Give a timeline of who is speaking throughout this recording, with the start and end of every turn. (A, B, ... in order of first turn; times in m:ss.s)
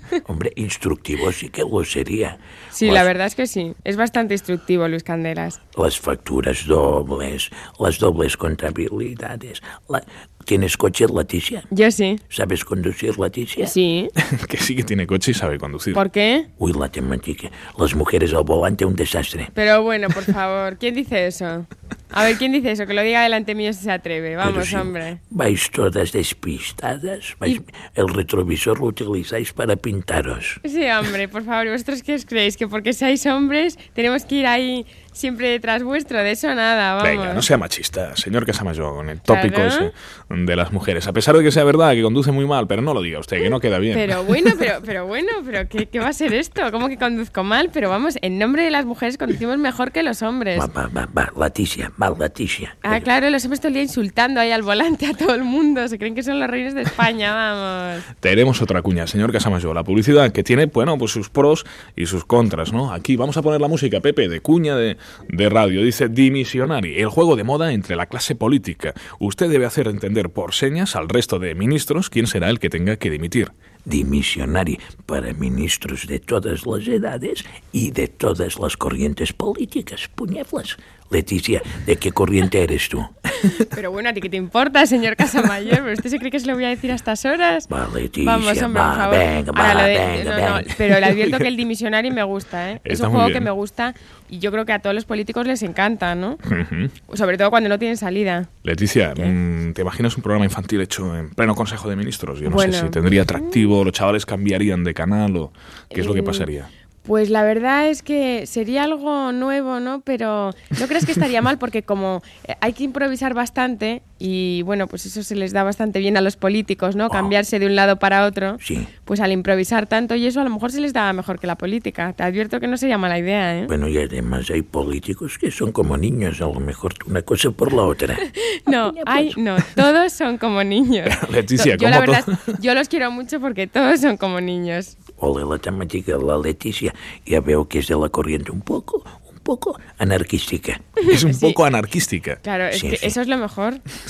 0:00.2-0:03.1 A
0:02.7-0:05.6 B
0:05.8-0:11.7 A
0:11.7-0:12.2 B
0:12.3-0:13.7 A
0:13.6-0:14.1 B
0:14.2-0:16.0 C
0:15.9-0:16.5 B
0:16.6-0:19.5 A
0:19.5-0:25.2 B
0:24.4-0:30.6 A
0:30.6-0:37.5 B
0:37.0-0:44.5 C
0:39.3-0:39.9 B
0:43.9-0:50.7 B
0:50.6-0:53.1 A
0:52.8-0:58.1 B
0:58.2-1:13.5 C
1:13.9-1:23.1 A
1:23.6-1:27.7 B
1:27.7-1:31.1 A
1:28.2-1:36.4 B
1:31.0-1:31.5 C
1:32.8-1:33.5 C
1:36.5-1:36.9 C
1:37.1-1:38.5 B
1:38.6-1:46.7 C
1:42.4-1:43.7 B
1:45.9-1:46.5 B
1:47.0-2:03.7 B
1:58.6-1:58.9 A
2:03.7-2:09.4 A
2:08.6-2:15.0 B
2:11.0-2:12.6 C
2:15.2-2:20.8 A
2:21.0-2:21.6 B
2:21.1-2:22.4 C
2:22.4-2:23.8 B
2:22.7-2:23.2 A